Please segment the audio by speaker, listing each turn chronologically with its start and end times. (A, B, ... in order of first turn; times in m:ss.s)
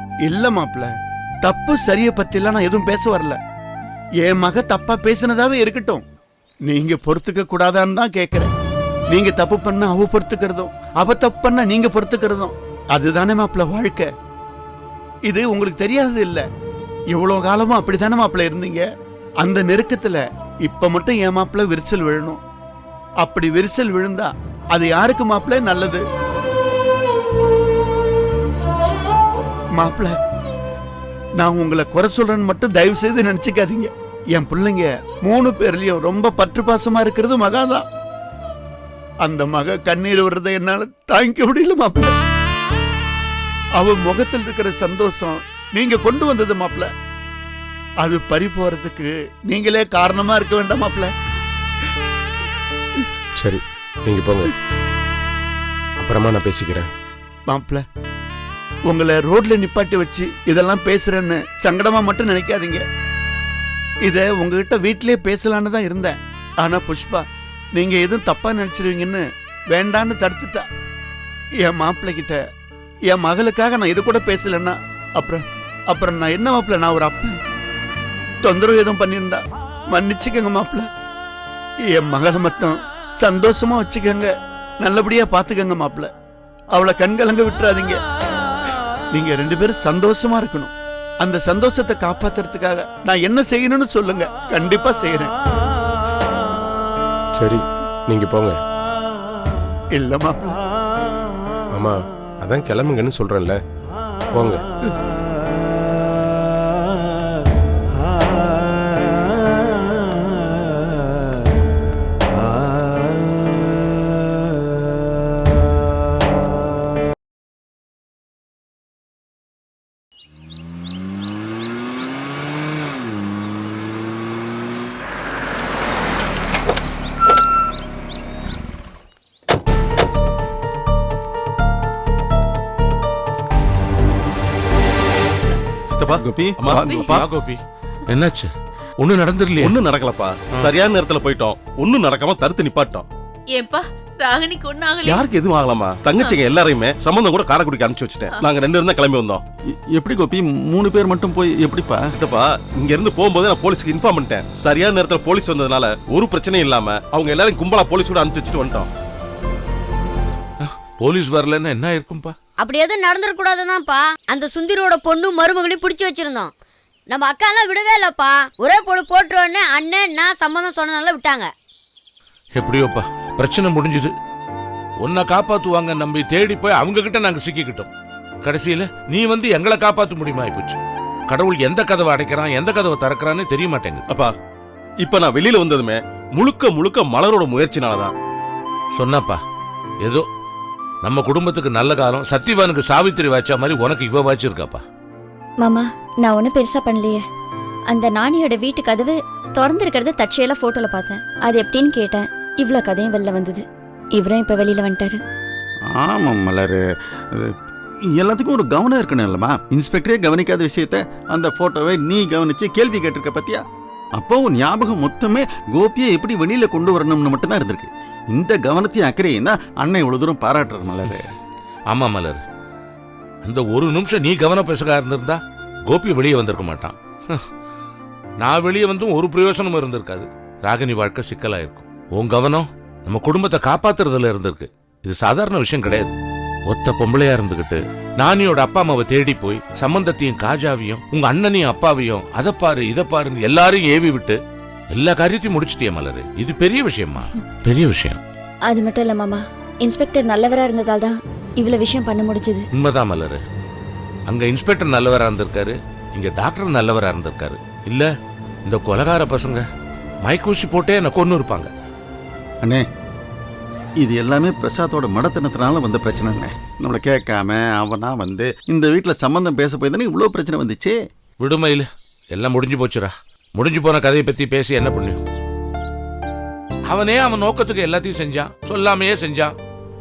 0:00.2-0:00.9 A
0:01.4-0:03.4 A
0:04.2-0:06.0 A
0:06.7-0:08.5 A
0:09.1-0:14.1 A
0:15.3-0:16.4 A
0:17.1-0:18.8 A
0:19.4-0:22.4 A
0:23.2-0:26.0 A
0:29.8-0:30.2 A
0:31.4-0:37.8 A
0:39.2-0:42.1 A
0:43.8-0:46.9 A
0:48.0-0:51.1 A
0:53.4-0:54.5 B
0:56.0-0:56.9 B
0:57.5-0:57.8 A
0:58.9-1:02.8 A
1:04.0-1:10.6 A
1:11.6-1:12.4 A
1:13.1-1:17.3 A
1:18.4-1:20.8 A
1:21.9-1:26.1 A
1:26.7-1:28.0 A
1:29.1-1:35.3 A
1:37.4-1:38.6 B
1:39.9-1:40.5 A
1:41.7-1:43.6 B
1:44.3-1:44.6 B
2:15.9-2:17.2 C
2:16.2-2:17.1 D
2:16.8-2:17.2 E
2:17.1-2:19.8 F
2:19.6-2:23.1 C
2:23.5-2:25.2 E
2:25.0-2:29.4 C
2:26.2-2:26.4 E
2:29.9-2:32.1 D
2:32.1-2:38.9 C
2:40.6-2:42.3 F
2:42.6-2:46.5 G
2:47.1-2:51.5 G
2:52.6-2:54.1 F
2:55.0-2:57.9 F
2:58.4-3:04.0 F
3:05.0-3:08.1 C
3:09.0-3:09.4 F
3:11.0-3:14.8 F
3:15.6-3:17.2 H
3:17.9-3:23.6 H
3:24.2-3:25.2 H
3:25.9-3:26.8 D
3:28.1-3:33.6 D
3:34.2-3:41.3 D
3:41.9-3:42.4 F
3:43.4-3:47.4 F
3:48.4-3:56.1 F
3:56.7-4:04.4 F
4:04.9-4:08.2 F
4:08.7-4:12.6 H
4:12.7-4:13.4 F
4:14.3-4:18.1 F
4:18.7-4:19.6 F
4:20.2-4:21.7 F
4:24.0-4:31.0 D
4:31.4-4:35.2 F
4:36.9-4:39.5 F